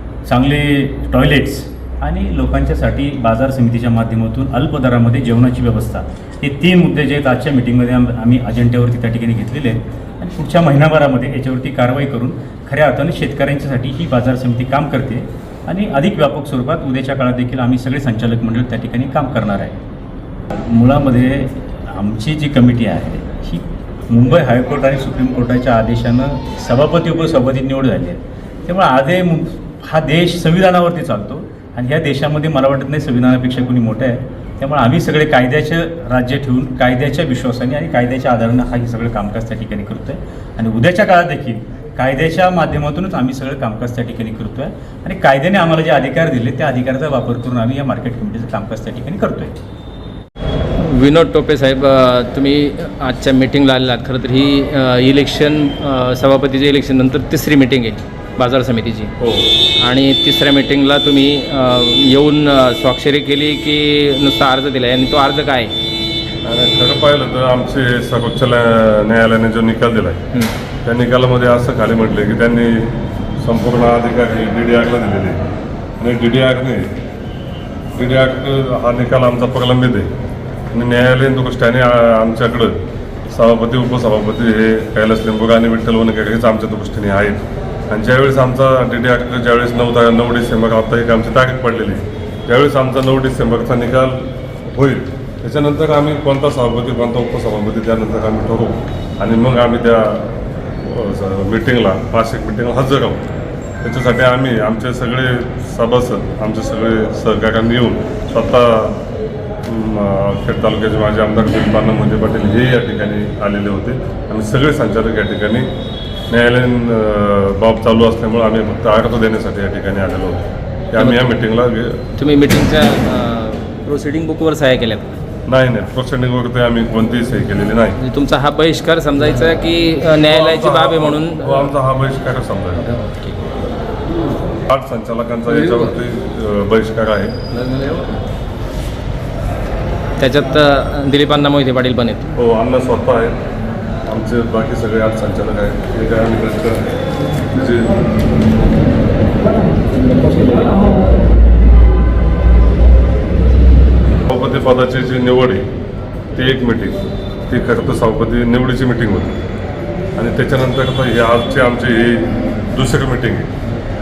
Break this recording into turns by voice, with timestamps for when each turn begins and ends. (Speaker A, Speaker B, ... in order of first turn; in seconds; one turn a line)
Speaker A: 0.2-19.8
Speaker A: 20.5-49.5
Speaker B: 50.8-59.1
Speaker C: 59.2-59.5
Speaker B: 59.8-65.7
Speaker C: 66.4-70.2
Speaker C: 70.8-75.4
Speaker C: 76.0-76.9
Speaker C: 77.9-80.1
Speaker C: 80.7-82.8
Speaker C: 83.3-103.2
Speaker C: 103.8-109.0
Speaker C: 109.6-115.7
Speaker C: 116.3-122.0
Speaker B: 121.0-121.3
Speaker B: 122.2-125.2
Speaker C: 125.5-128.0
Speaker B: 128.0-131.7
Speaker C: 130.2-132.9
Speaker B: 132.9-133.4
Speaker C: 134.6-137.4
Speaker B: 137.7-138.0
Speaker B: 140.2-142.3
Speaker C: 142.3-143.3
Speaker C: 144.1-146.9
Speaker C: 147.5-148.0
Speaker C: 154.3-155.6
Speaker C: 156.3-156.9
Speaker C: 157.5-159.4
Speaker C: 160.2-163.5